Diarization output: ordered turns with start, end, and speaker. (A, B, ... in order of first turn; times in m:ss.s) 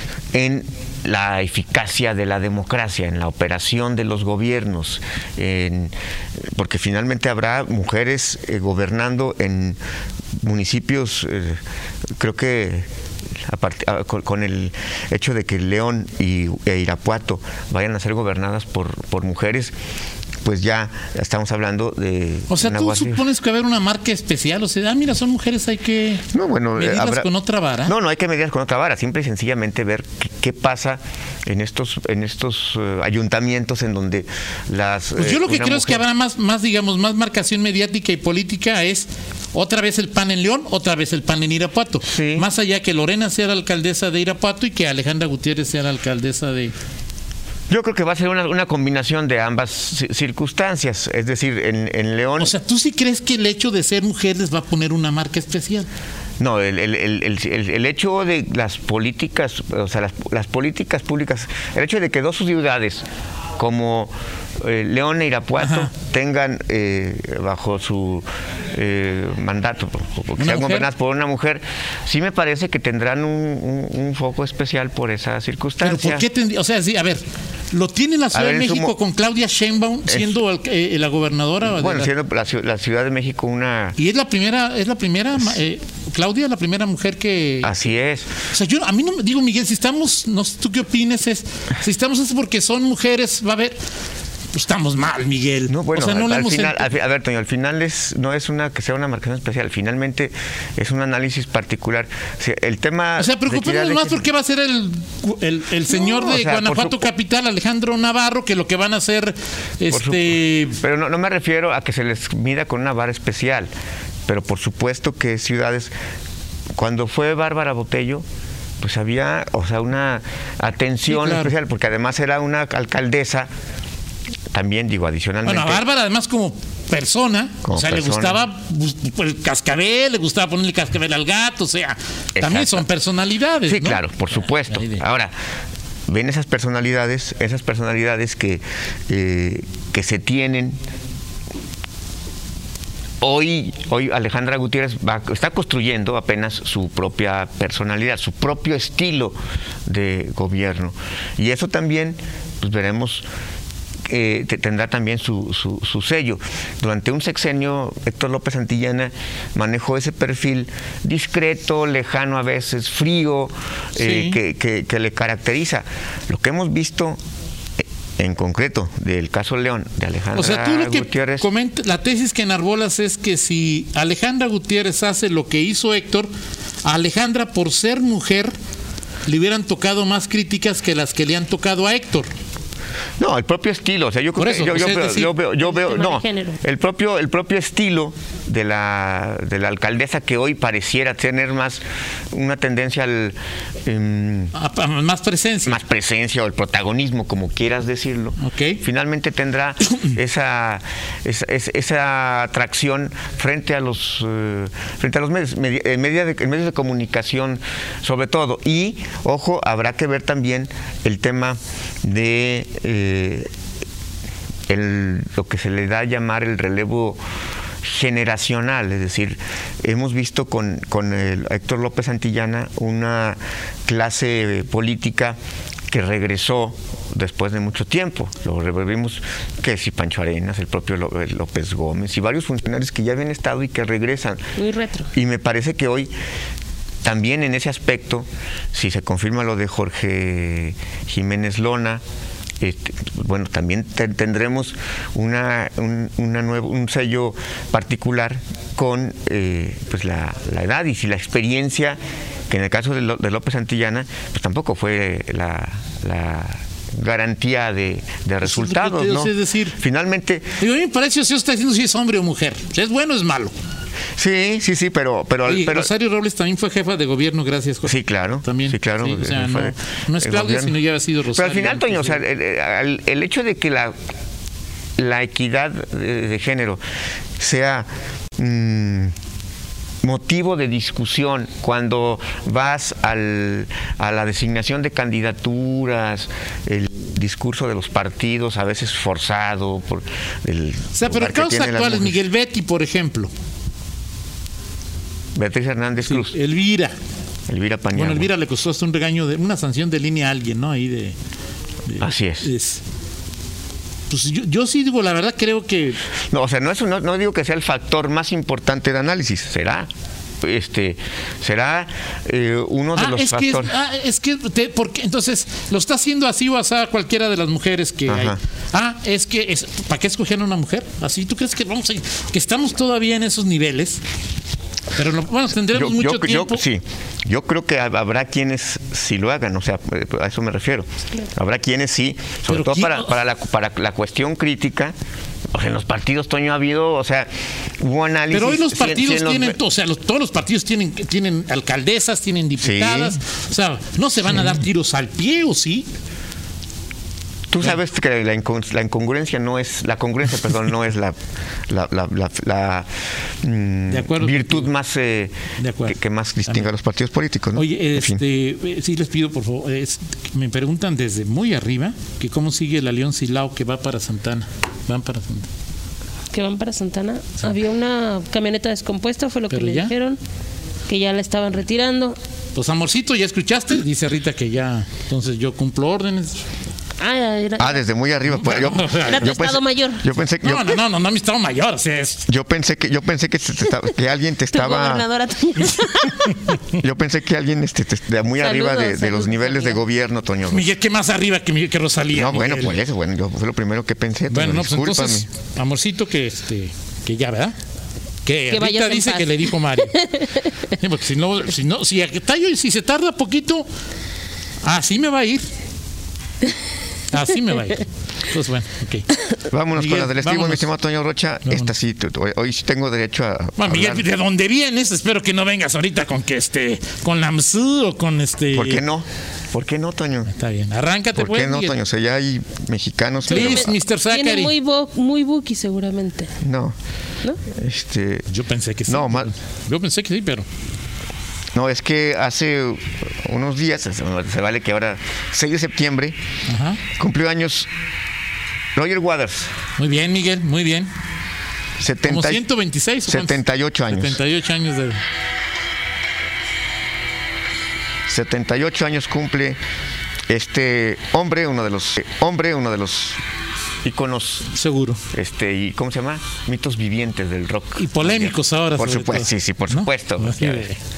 0:00.3-0:09.8 A
0:10.4-0:11.6 A
0:12.2-0:12.9 A
0:13.4-0:19.7 A
0:20.4-0:23.2 A
0:22.5-0:26.2 B
0:26.3-0:27.3 A
0:26.8-0:27.9 B
0:27.8-0:36.1 A
0:35.2-0:46.7 B
0:42.0-0:42.5 A
0:47.7-0:52.5 A
0:52.4-0:55.9 B
0:56.4-1:03.0 A
1:03.6-1:16.3 A
1:05.6-1:05.9 B
1:10.4-1:10.9 B
1:15.8-1:22.1 B
1:18.3-1:19.0 A
1:20.1-1:20.4 A
1:21.7-1:24.0 A
1:24.0-1:27.8 B
1:27.6-1:28.3 A
1:28.4-1:33.8 B
1:34.5-1:36.9 B
1:35.7-1:44.2 A
1:43.2-1:50.8 B
1:45.9-1:47.1 A
1:49.9-1:53.7 A
1:54.3-1:55.9 A
1:56.8-1:58.2 A
1:58.8-2:03.5 A
2:01.1-2:01.5 B
2:04.5-2:05.8 A
2:05.4-2:15.0 B
2:07.6-2:08.4 A
2:12.4-2:12.8 A
2:13.7-2:15.3 A
2:16.1-2:20.8 A
2:23.2-2:33.3 A
2:34.1-2:47.2 A
2:44.0-2:44.4 B
2:48.2-2:51.5 A
2:50.4-2:56.3 B
2:56.8-2:58.5 B
2:59.3-3:02.3 B
3:03.2-3:14.5 A
3:04.4-3:05.4 B
3:05.6-3:06.6 C
3:14.5-3:15.8 B
3:15.7-3:33.5 A
3:18.4-3:18.8 B
3:34.7-3:37.2 A
3:37.8-3:45.4 A
3:45.9-3:54.5 A
3:54.6-3:55.1 C
3:55.1-3:56.1 A
3:57.0-4:02.0 A
4:02.6-4:12.0 A
4:12.5-4:20.6 A
4:18.4-4:19.8 B
4:20.6-4:23.5 B
4:24.2-4:25.9 A
4:25.4-4:32.2 B
4:27.8-4:30.8 A
4:31.3-4:34.0 A
4:35.0-4:36.8 A
4:37.4-4:39.1 A
4:40.0-4:52.2 A
4:50.9-4:53.3 B
4:55.4-4:56.4 A
4:56.0-4:57.0 B
4:57.5-4:58.3 A
4:57.9-5:01.2 B
5:01.9-5:02.8 B
5:02.0-5:02.5 A
5:04.1-5:06.0 B
5:06.3-5:09.9 A
5:10.4-5:13.7 A
5:13.0-5:24.0 B
5:18.1-5:18.4 A
5:24.9-5:26.6 B
5:25.7-5:34.9 A
5:32.5-5:33.1 B
5:35.5-5:39.6 A
5:38.3-5:45.9 B
5:42.6-5:43.2 A
5:47.5-5:51.2 A
5:51.7-5:52.9 A
5:53.4-5:58.2 A
5:53.9-5:54.7 B
5:55.6-5:56.7 B
5:57.6-6:05.5 B
6:06.3-6:10.2 C
6:09.5-6:09.9 B
6:10.9-6:12.2 C
6:12.6-6:16.5 B
6:17.0-6:17.8 C
6:17.6-6:20.8 A
6:18.3-6:19.3 B
6:19.0-6:20.0 C
6:20.4-6:22.3 B
6:22.3-6:25.1 A
6:24.5-6:26.4 C
6:26.7-6:30.7 A
6:28.4-6:29.8 C
6:30.5-6:32.8 B
6:32.1-6:35.3 A
6:34.3-6:37.6 B
6:38.2-6:40.0 B
6:38.5-6:40.5 C
6:40.6-6:43.7 B
6:44.6-6:45.5 B
6:47.1-6:49.2 B
6:49.5-6:54.1 A
6:49.7-6:50.7 B
6:51.5-6:51.7 B
6:53.6-6:58.8 B
6:58.5-7:00.3 A
7:00.3-7:01.8 B
7:01.2-7:03.7 A
7:03.3-7:04.5 B
7:03.3-7:06.3 C
7:06.4-7:06.8 A
7:07.5-7:08.3 A
7:08.3-7:10.5 B
7:08.9-7:09.3 A
7:11.5-7:16.2 A
7:16.5-7:16.8 B
7:17.0-7:17.7 A
7:18.8-7:19.5 A
7:19.8-7:20.9 B
7:21.8-7:22.4 A
7:22.1-7:25.0 B
7:23.1-7:24.2 A
7:28.1-7:29.6 A
7:30.3-7:33.2 A
7:33.8-7:34.5 A
7:34.5-7:35.0 B
7:35.1-7:40.7 A
7:37.8-7:40.8 B